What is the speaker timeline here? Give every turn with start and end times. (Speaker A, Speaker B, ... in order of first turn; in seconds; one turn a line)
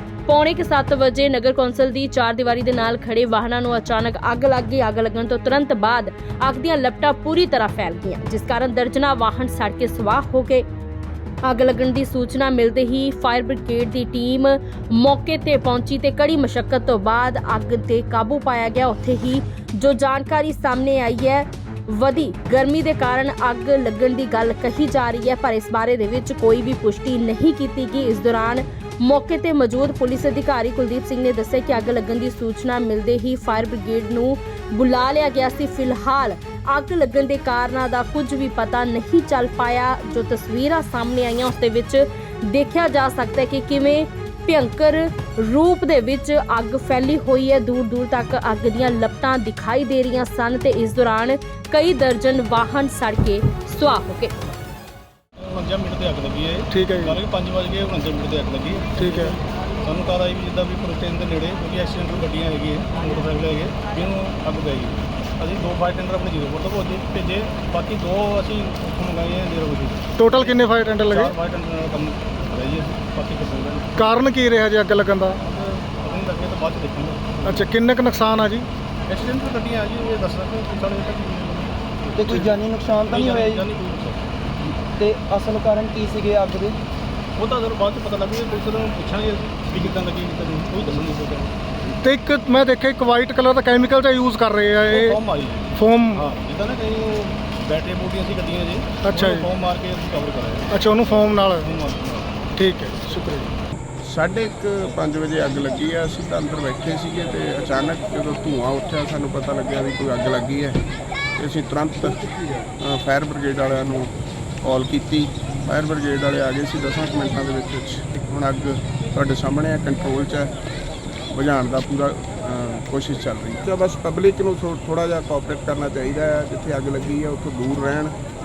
Speaker A: 0.3-10.6
Speaker A: 11.4-54.3
Speaker B: 55.4-74.0
Speaker C: 56.7-57.2
Speaker C: 59.0-59.4
Speaker C: 70.2-71.3
Speaker C: 74.0-75.4
Speaker B: 75.5-77.6
Speaker C: 77.4-78.7
Speaker B: 79.1-84.2
Speaker D: 82.1-83.7
Speaker D: 84.9-86.8
Speaker B: 87.4-91.5
Speaker C: 92.0-95.2
Speaker B: 94.9-100.7
Speaker C: 95.8-96.2
Speaker C: 99.0-99.5
Speaker C: 100.7-101.7
Speaker B: 101.6-102.4
Speaker C: 102.5-103.5
Speaker E: 104.0-110.8
Speaker E: 111.4-114.1
Speaker E: 114.6-120.5
Speaker E: 121.3-128.2